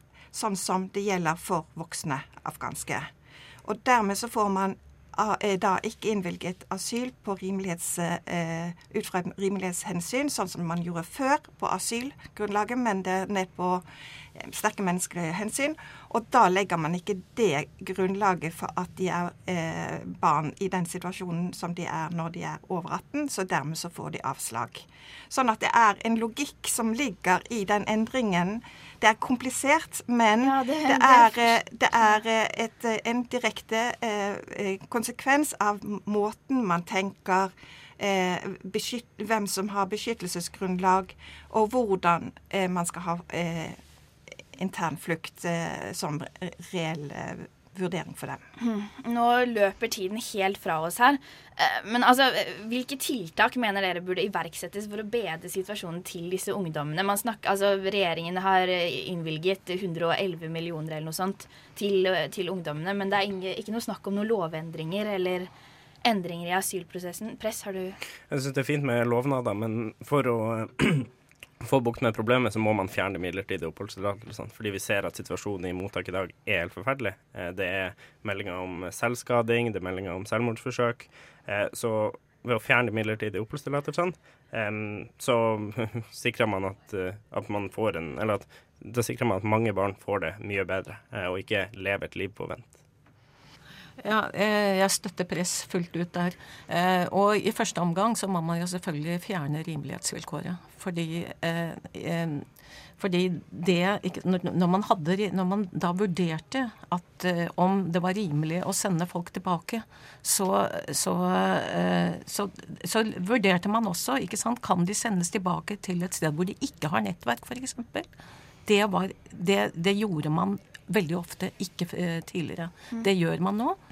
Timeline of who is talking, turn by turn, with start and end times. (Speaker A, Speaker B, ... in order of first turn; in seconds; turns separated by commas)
Speaker A: 0.3-3.1, Speaker A: 3.6-13.8, Speaker A: 14.4-43.8, Speaker B: 30.4-31.6, Speaker A: 44.5-48.4, Speaker B: 48.6-65.5, Speaker B: 66.0-68.0, Speaker C: 68.3-71.1, Speaker C: 71.6-92.7, Speaker D: 94.0-102.4, Speaker D: 103.0-118.1, Speaker D: 118.7-123.8